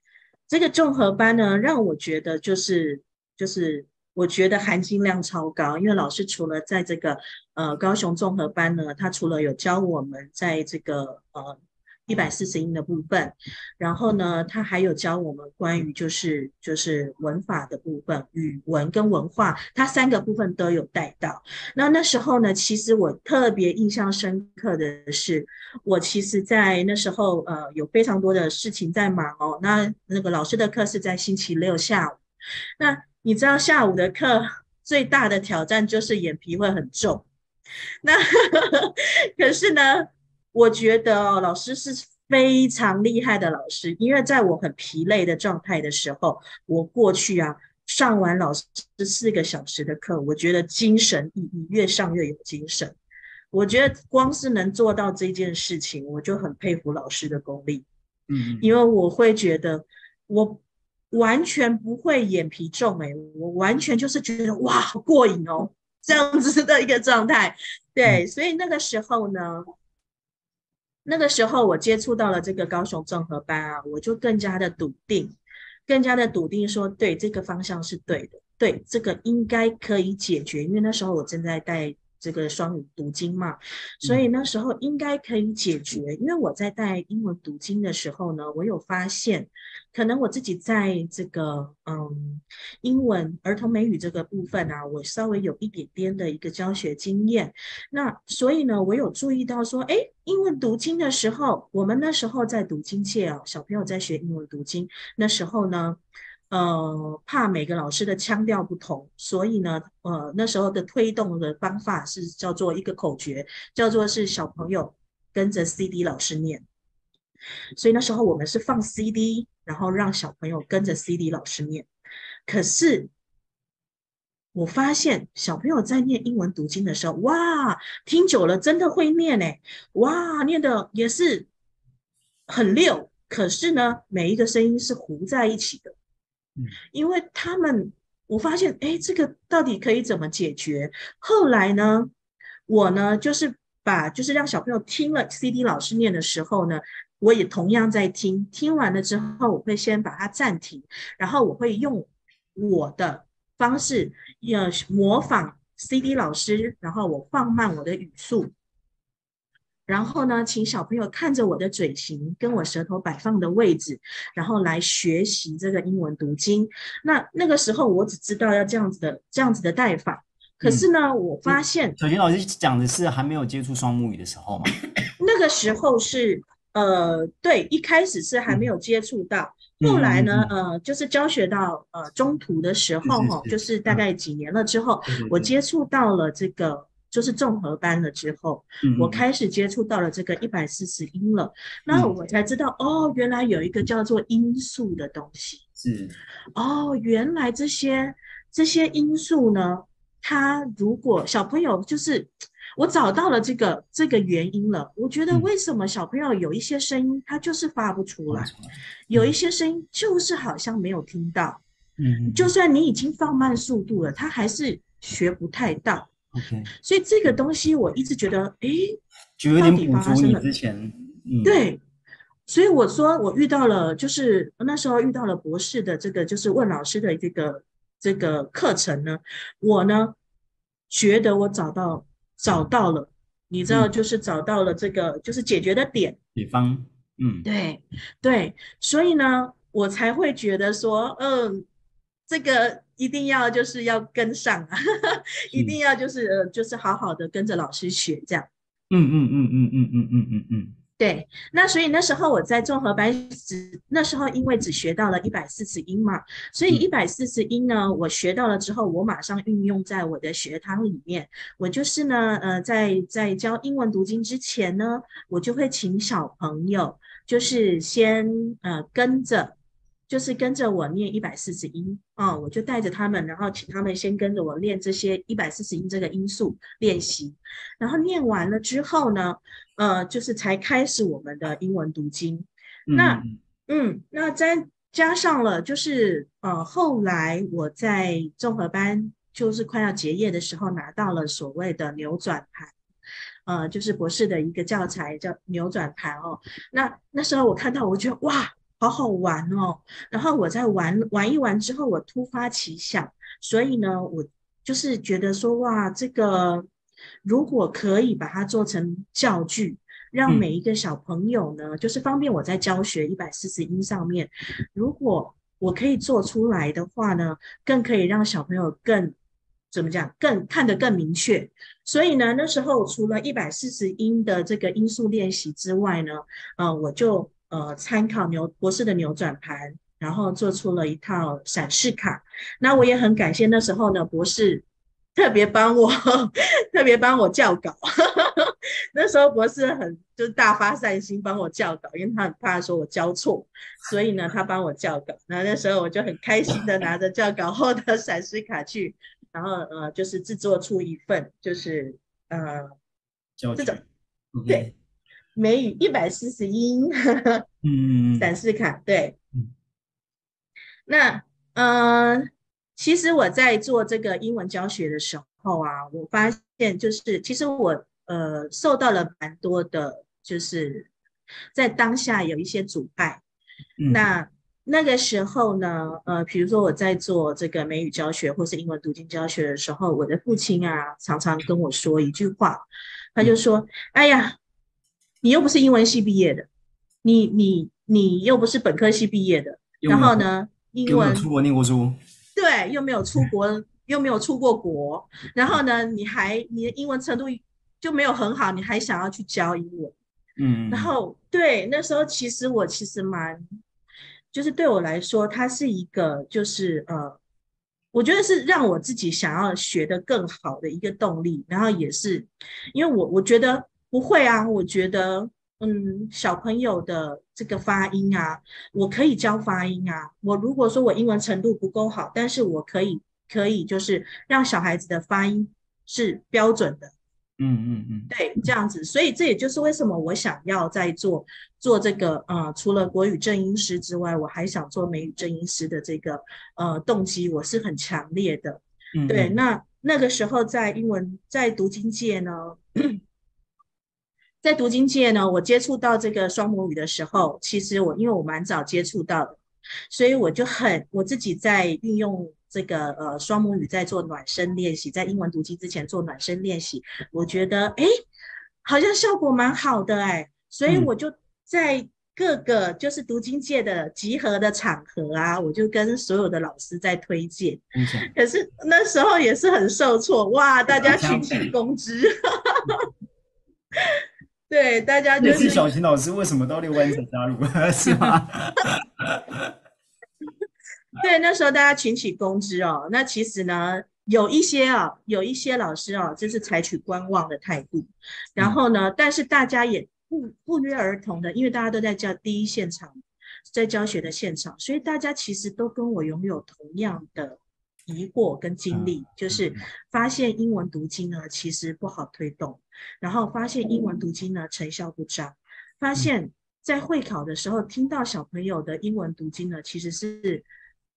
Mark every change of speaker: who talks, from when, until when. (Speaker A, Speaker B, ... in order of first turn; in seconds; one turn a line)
Speaker A: 0.5-32.2
Speaker A: 32.8-37.2
Speaker A: 38.0-53.0
Speaker A: 53.5-57.9
Speaker B: 58.3-58.7
Speaker A: 58.6-69.6
Speaker A: 71.0-75.3
Speaker A: 75.9-116.6
Speaker A: 117.8-121.9
Speaker A: 122.5-123.1
Speaker A: 124.5-131.5
Speaker A: 132.5-135.9
Speaker A: 136.9-142.1
Speaker A: 142.7-158.5
Speaker A: 159.9-172.0
Speaker B: 170.6-170.9
Speaker B: 171.4-174.7
Speaker A: 175.2-195.6
Speaker B: 179.8-180.5
Speaker B: 183.0-184.0
Speaker B: 185.1-185.5
Speaker B: 188.8-189.2
Speaker B: 195.8-196.2
Speaker A: 196.6-208.5
Speaker B: 208.3-209.3
Speaker A: 209.1-211.6
Speaker B: 212.0-212.5
Speaker A: 212.3-216.1
Speaker B: 216.3-216.7
Speaker A: 216.8-219.0
Speaker B: 219.4-221.6
Speaker A: 219.6-220.4
Speaker A: 221.4-221.8
Speaker A: 222.5-230.1
Speaker A: 230.9-236.2
Speaker B: 236.3-237.4
Speaker A: 237.4-241.7
Speaker A: 242.3-248.5
Speaker B: 245.5-245.8
Speaker B: 248.9-250.7
Speaker A: 251.0-269.5
Speaker A: 270.1-292.7
Speaker B: 282.9-283.4
Speaker A: 293.4-306.7
Speaker A: 307.2-319.1
Speaker A: 319.7-334.6
Speaker A: 335.1-352.7
Speaker B: 353.4-354.7
Speaker A: 355.4-357.4
Speaker B: 357.6-358.3
Speaker A: 358.2-359.1
Speaker A: 360.9-370.9
Speaker A: 371.5-373.2
Speaker B: 373.8-374.0
Speaker A: 373.9-382.6
Speaker A: 383.1-384.4
Speaker A: 385.2-386.5
Speaker A: 387.0-391.3
Speaker B: 389.8-390.2
Speaker B: 390.9-392.0
Speaker A: 392.3-399.9
Speaker B: 400.4-400.9
Speaker A: 400.7-403.4
Speaker A: 404.3-407.2
Speaker A: 407.9-426.9
Speaker B: 427.4-428.1
Speaker A: 428.1-443.0
Speaker B: 438.9-439.4
Speaker A: 444.4-449.4
Speaker A: 449.9-457.9
Speaker A: 458.6-472.9
Speaker B: 467.7-468.1
Speaker B: 470.7-471.5
Speaker A: 473.8-475.7
Speaker B: 475.2-479.5
Speaker A: 481.0-492.9
Speaker A: 493.5-510.4
Speaker B: 498.7-499.6